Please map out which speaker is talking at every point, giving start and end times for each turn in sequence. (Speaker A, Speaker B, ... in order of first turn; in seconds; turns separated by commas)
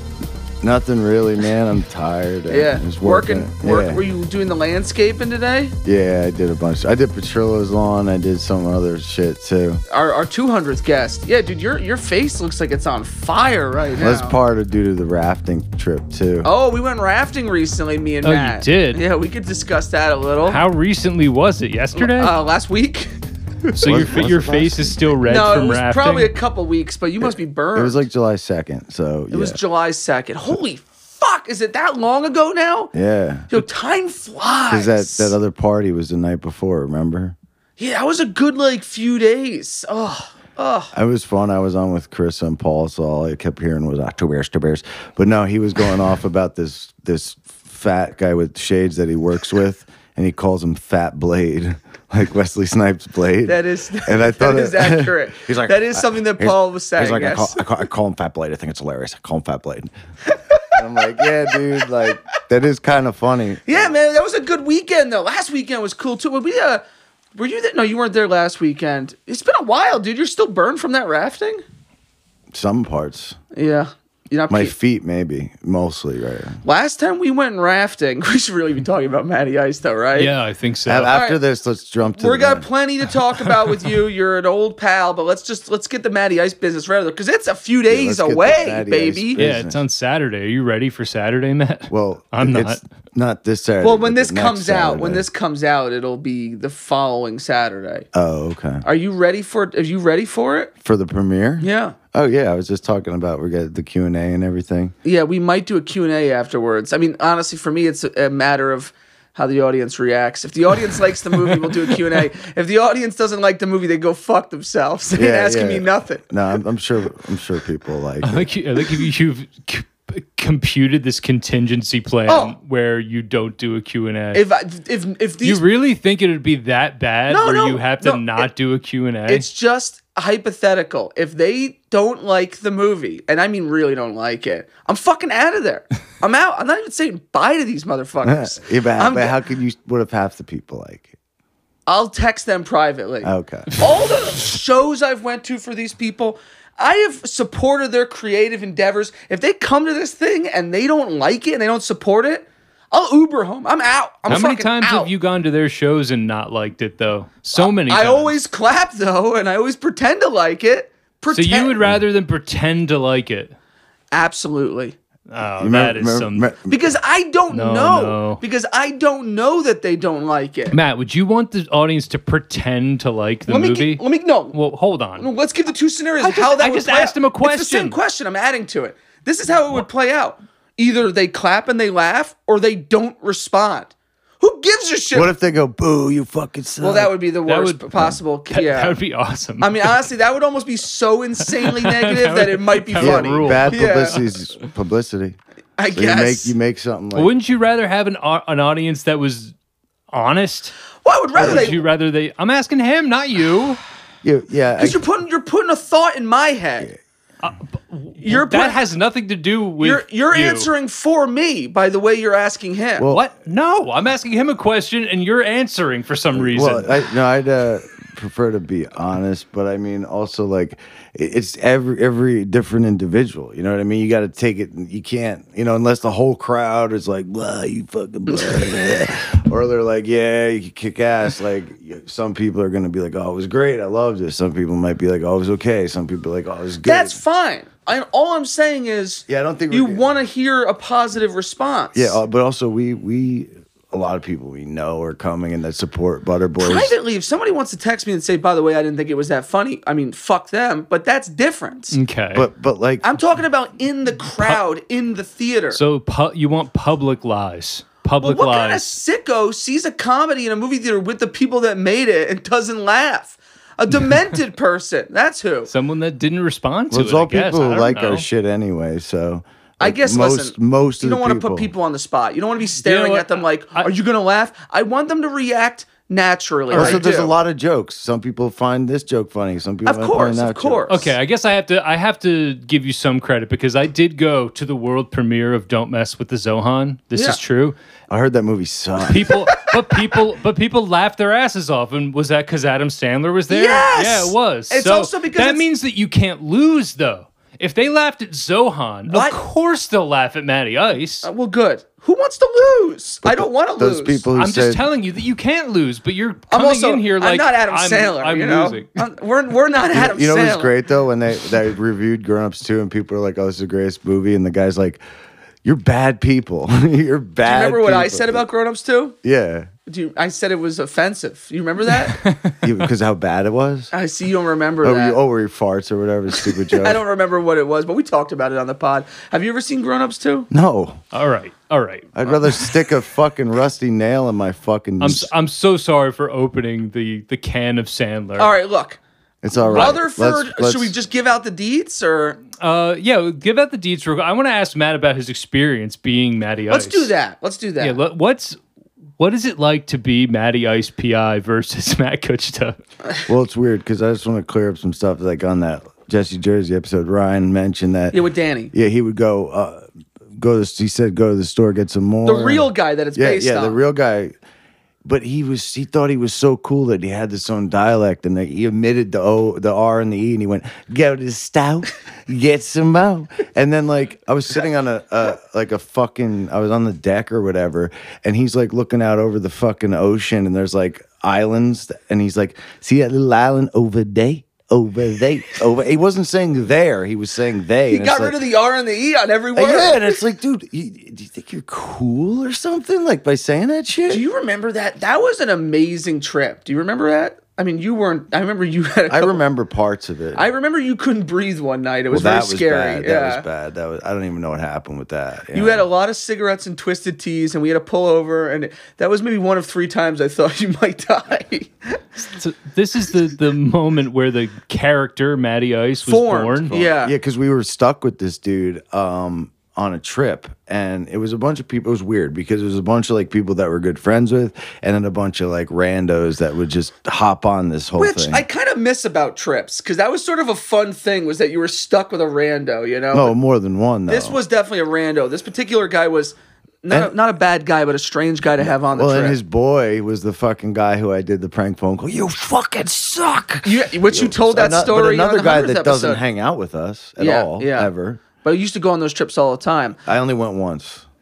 Speaker A: 0.6-4.0, Speaker B: 2.5-5.8, Speaker A: 5.8-9.8, Speaker B: 9.9-14.4, Speaker A: 14.0-16.5, Speaker B: 16.4-20.6, Speaker C: 18.2-19.0, Speaker C: 20.4-22.4, Speaker B: 21.9-23.8, Speaker C: 23.8-26.3, Speaker A: 23.9-25.0, Speaker B: 25.2-28.0, Speaker A: 27.2-29.6, Speaker B: 29.3-32.9, Speaker A: 32.9-33.5, Speaker B: 33.5-35.4, Speaker A: 34.7-37.4, Speaker B: 37.8-40.9, Speaker A: 40.9-59.9, Speaker B: 53.4-57.8, Speaker A: 60.7-63.9, Speaker B: 63.7-66.8, Speaker B: 67.3-71.6, Speaker A: 72.5-73.4, Speaker B: 73.5-74.7, Speaker A: 74.5-76.6, Speaker B: 76.6-80.3, Speaker C: 80.2-81.1, Speaker A: 80.9-82.6, Speaker B: 81.1-81.4, Speaker B: 82.2-89.4, Speaker A: 87.9-89.8, Speaker C: 89.4-92.8, Speaker A: 91.9-95.3, Speaker B: 93.8-98.1, Speaker A: 98.1-98.8, Speaker B: 98.8-100.7, Speaker A: 100.8-104.9, Speaker B: 101.6-102.0, Speaker B: 105.0-116.2, Speaker A: 115.1-118.5, Speaker C: 118.2-124.5, Speaker B: 122.3-122.5, Speaker B: 124.3-125.6, Speaker C: 125.4-129.4, Speaker B: 127.3-128.5, Speaker B: 129.3-139.4, Speaker A: 138.2-141.1, Speaker B: 141.9-155.1, Speaker A: 143.2-143.7, Speaker C: 154.3-158.3, Speaker B: 157.6-161.9, Speaker C: 161.3-163.5, Speaker B: 164.1-164.9, Speaker C: 165.3-166.5, Speaker A: 165.6-166.8, Speaker B: 166.7-170.8, Speaker C: 167.5-168.4, Speaker C: 170.7-175.3, Speaker B: 173.5-174.6, Speaker B: 175.2-185.3, Speaker C: 176.2-178.0, Speaker A: 185.1-187.1, Speaker B: 186.8-189.0, Speaker C: 187.4-190.0, Speaker B: 189.6-194.2, Speaker C: 191.6-194.2, Speaker A: 193.0-195.4, Speaker B: 195.8-196.6, Speaker A: 195.9-197.3, Speaker C: 197.1-199.5, Speaker C: 200.1-200.8, Speaker B: 201.0-201.8, Speaker C: 201.3-203.8, Speaker A: 201.4-201.7, Speaker A: 204.2-205.0, Speaker B: 204.8-206.9, Speaker C: 207.4-210.7, Speaker B: 208.2-208.8, Speaker B: 209.8-213.1, Speaker C: 213.1-217.0, Speaker A: 216.3-237.2, Speaker B: 228.3-228.7, Speaker B: 236.8-242.2, Speaker A: 239.3-240.0, Speaker A: 241.9-246.9, Speaker B: 246.6-252.0, Speaker C: 251.9-252.5, Speaker A: 252.3-253.1, Speaker B: 253.0-255.8, Speaker C: 254.3-254.6, Speaker C: 255.7-259.0, Speaker B: 258.2-265.7, Speaker C: 263.9-264.4, Speaker C: 265.7-268.2, Speaker A: 266.9-271.7, Speaker B: 269.8-277.4, Speaker C: 272.8-273.9, Speaker A: 276.7-281.1, Speaker C: 276.7-277.0, Speaker B: 279.9-281.1, Speaker C: 280.9-287.8, Speaker A: 288.1-289.4, Speaker C: 289.1-301.3, Speaker B: 293.5-295.6, Speaker B: 299.1-299.4, Speaker B: 301.2-304.2, Speaker A: 303.2-304.8, Speaker C: 304.4-309.0, Speaker B: 306.5-310.7, Speaker A: 309.9-315.0, Speaker A: 315.6-318.4, Speaker B: 317.4-319.1, Speaker A: 319.2-319.7, Speaker B: 319.9-322.2, Speaker C: 322.1-322.6, Speaker A: 322.6-323.9, Speaker B: 323.9-325.2, Speaker A: 324.8-327.0, Speaker B: 326.7-330.5, Speaker A: 330.5-331.0, Speaker C: 331.1-332.6, Speaker A: 332.1-335.3, Speaker C: 335.0-338.5, Speaker B: 338.4-339.0, Speaker A: 339.4-340.9, Speaker B: 339.6-342.4, Speaker C: 339.7-340.0, Speaker C: 342.6-347.1, Speaker B: 346.7-348.0, Speaker C: 347.8-348.6, Speaker C: 349.2-352.8, Speaker A: 353.3-358.2, Speaker B: 358.1-358.7, Speaker A: 358.7-359.9, Speaker A: 360.4-364.3, Speaker B: 362.2-363.8, Speaker A: 365.0-388.4, Speaker B: 387.9-390.2, Speaker A: 389.6-394.2, Speaker B: 394.1-399.4, Speaker A: 399.1-400.4, Speaker B: 400.4-403.4, Speaker A: 402.1-405.9, Speaker B: 405.5-412.1, Speaker C: 412.3-416.8, Speaker B: 416.0-417.1, Speaker A: 416.7-428.4, Speaker B: 428.0-433.4, Speaker A: 433.1-434.4, Speaker B: 434.1-439.4, Speaker A: 438.6-448.2, Speaker B: 443.6-446.2, Speaker B: 447.2-450.0, Speaker A: 450.0-451.0